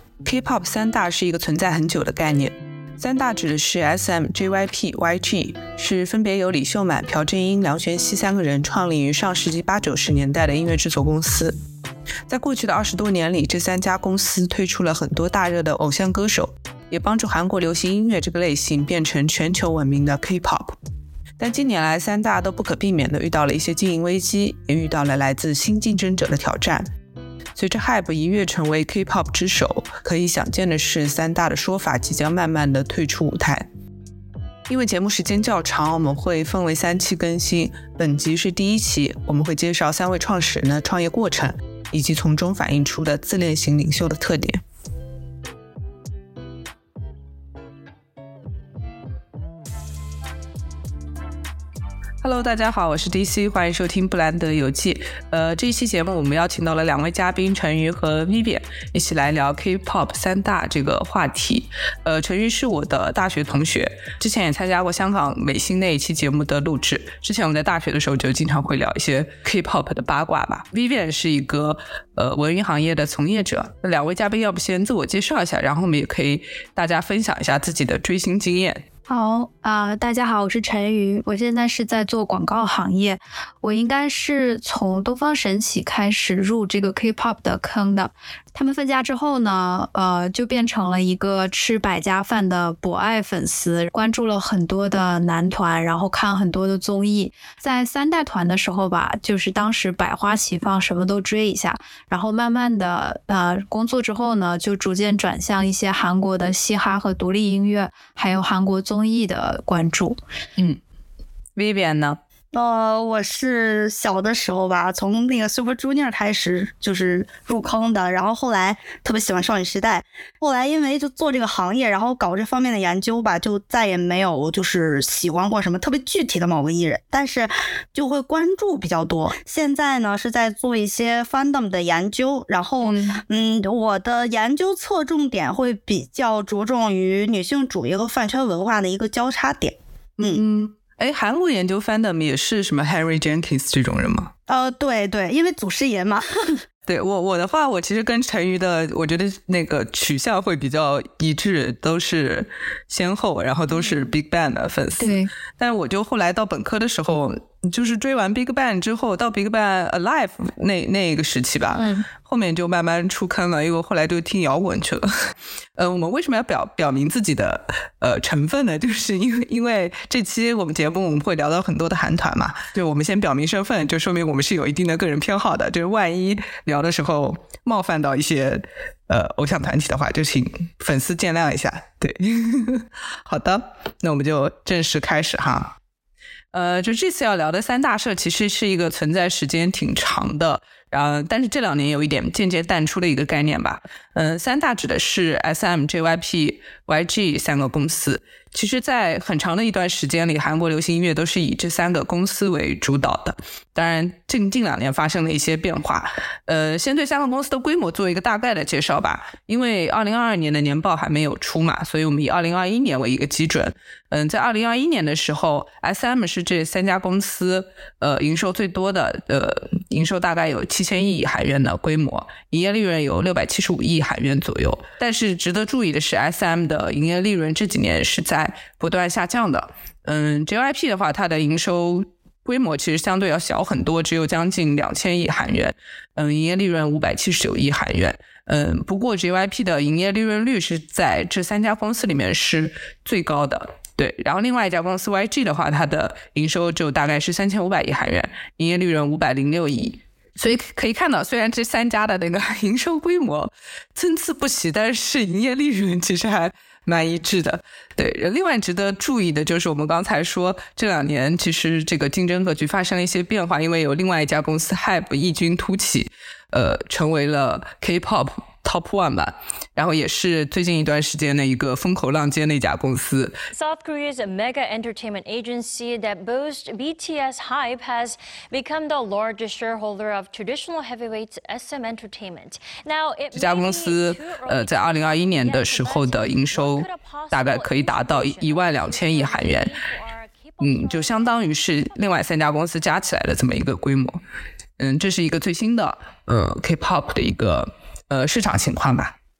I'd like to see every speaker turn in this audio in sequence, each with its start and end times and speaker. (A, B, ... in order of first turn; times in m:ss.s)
0:00.2-0:11.6 A
0:12.3-0:20.8 A
0:21.4-0:26.9 A
0:27.6-0:33.7 A
0:34.7-0:44.6 A
0:52.2-1:18.8 A
1:19.1-1:50.2 B
1:51.6-1:52.2 A
1:52.5-2:20.4 C
2:12.8-2:13.2 A
2:20.2-2:24.3 A
2:24.5-2:26.6 C
2:26.9-2:45.1 A
2:35.0-2:35.3 B
2:41.8-2:42.0 B
2:45.8-3:05.7 A
3:06.5-4:33.4 A
4:33.5-4:52.3 D
4:43.3-4:49.8 A
4:50.6-4:54.2 A
4:54.8-4:59.1 A